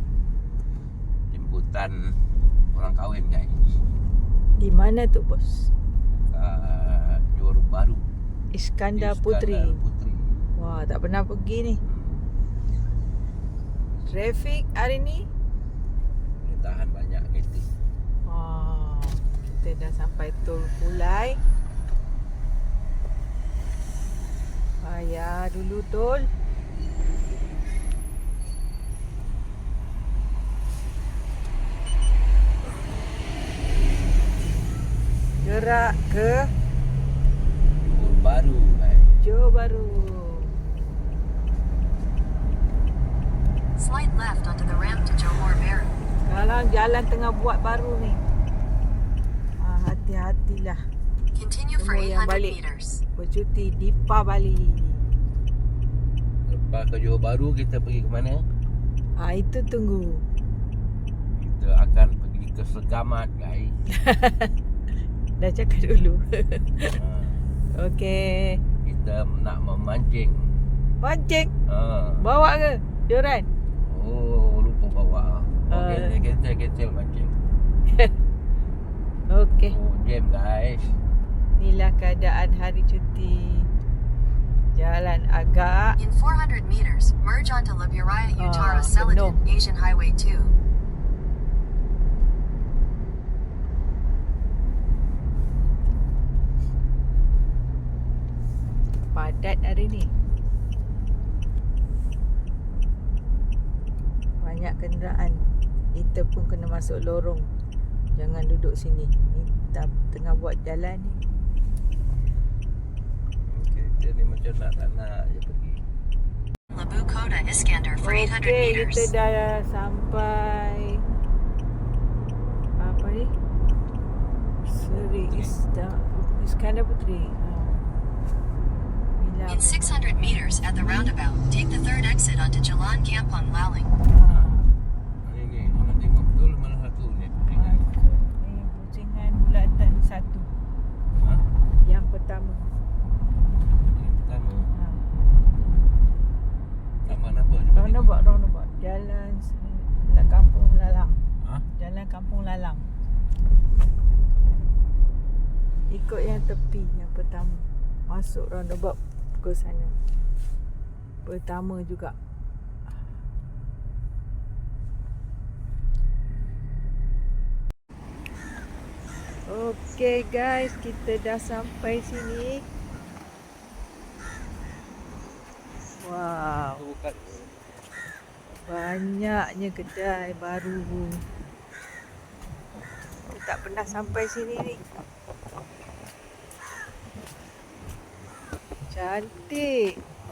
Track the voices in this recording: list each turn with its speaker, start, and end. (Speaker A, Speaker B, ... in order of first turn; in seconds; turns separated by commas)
Speaker A: 1.3-2.1, Speaker A: 2.7-3.7, Speaker B: 4.6-5.7, Speaker A: 6.1-8.1, Speaker B: 8.5-9.8, Speaker A: 8.9-10.3, Speaker B: 10.6-11.8, Speaker A: 11.8-12.2, Speaker B: 14.1-15.2, Speaker A: 16.4-17.7, Speaker B: 18.3-21.4, Speaker B: 24.8-26.3, Speaker B: 35.4-36.5, Speaker A: 37.8-39.1, Speaker B: 39.2-40.5, Speaker C: 43.8-45.9, Speaker B: 46.2-48.2, Speaker B: 49.6-50.8, Speaker C: 51.3-53.0, Speaker B: 51.8-52.6, Speaker B: 53.1-55.0, Speaker A: 56.5-58.4, Speaker B: 59.2-60.2, Speaker A: 61.3-63.7, Speaker B: 63.9-64.5, Speaker B: 65.4-67.0, Speaker A: 67.0-67.4, Speaker B: 67.8-68.6, Speaker A: 68.8-70.5, Speaker B: 71.0-71.5, Speaker A: 71.7-72.2, Speaker B: 72.2-73.5, Speaker A: 73.8-77.3, Speaker B: 75.7-76.1, Speaker B: 79.3-79.7, Speaker A: 79.7-80.9, Speaker B: 81.5-83.7, Speaker B: 84.7-86.0, Speaker C: 86.0-90.5, Speaker B: 88.4-89.4, Speaker B: 99.1-100.1, Speaker B: 104.4-105.4, Speaker B: 105.9-107.5, Speaker B: 108.2-111.2, Speaker A: 113.4-115.8, Speaker C: 116.7-119.1, Speaker B: 118.0-121.0, Speaker B: 122.8-123.3, Speaker B: 124.7-127.8, Speaker A: 124.7-125.5, Speaker B: 129.2-130.1, Speaker C: 129.5-133.9, Speaker B: 134.1-134.7, Speaker A: 134.2-134.5, Speaker A: 135.2-137.8, Speaker B: 137.5-140.5, Speaker A: 141.1-141.4, Speaker B: 141.8-142.7, Speaker A: 143.9-144.7, Speaker B: 144.7-145.0, Speaker A: 147.1-148.2, Speaker B: 147.7-151.2, Speaker A: 151.4-151.6, Speaker B: 151.8-152.9, Speaker B: 155.9-159.9, Speaker B: 161.2-162.1, Speaker B: 169.5-172.6, Speaker B: 176.0-176.8, Speaker A: 176.7-177.5, Speaker B: 178.6-181.2, Speaker B: 183.3-184.8, Speaker B: 188.9-189.9